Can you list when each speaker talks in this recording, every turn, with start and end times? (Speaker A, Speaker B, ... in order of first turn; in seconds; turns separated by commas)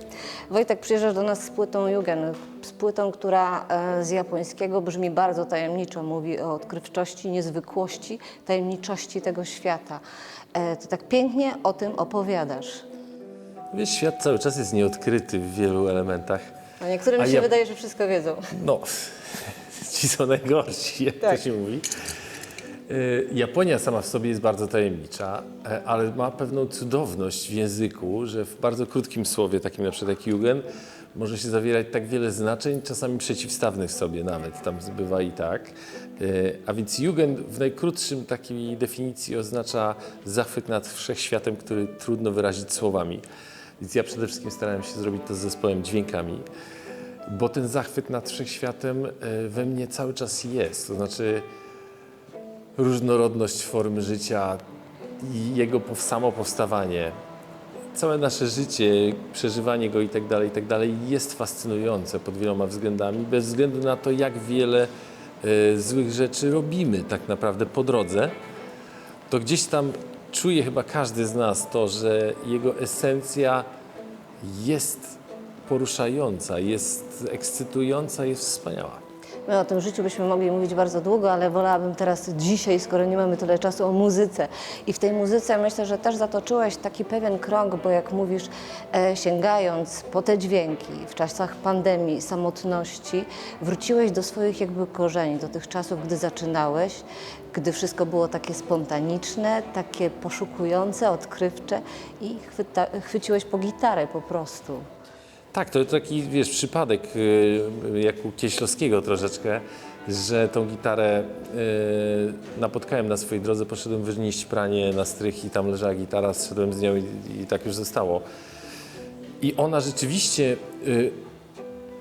Speaker A: 0.5-10.0, Speaker A: 10.5-12.8, Speaker B: 13.7-16.4, Speaker A: 16.8-18.5, Speaker B: 17.2-17.5, Speaker B: 18.5-21.9, Speaker B: 22.9-43.2, Speaker B: 43.8-46.5, Speaker B: 47.3-51.5, Speaker B: 52.8-54.6, Speaker B: 55.2-57.1, Speaker B: 57.9-64.9, Speaker B: 65.4-68.3, Speaker B: 69.3-73.7, Speaker B: 74.4-79.0, Speaker A: 79.5-104.8, Speaker B: 105.5-118.2, Speaker B: 119.4-121.2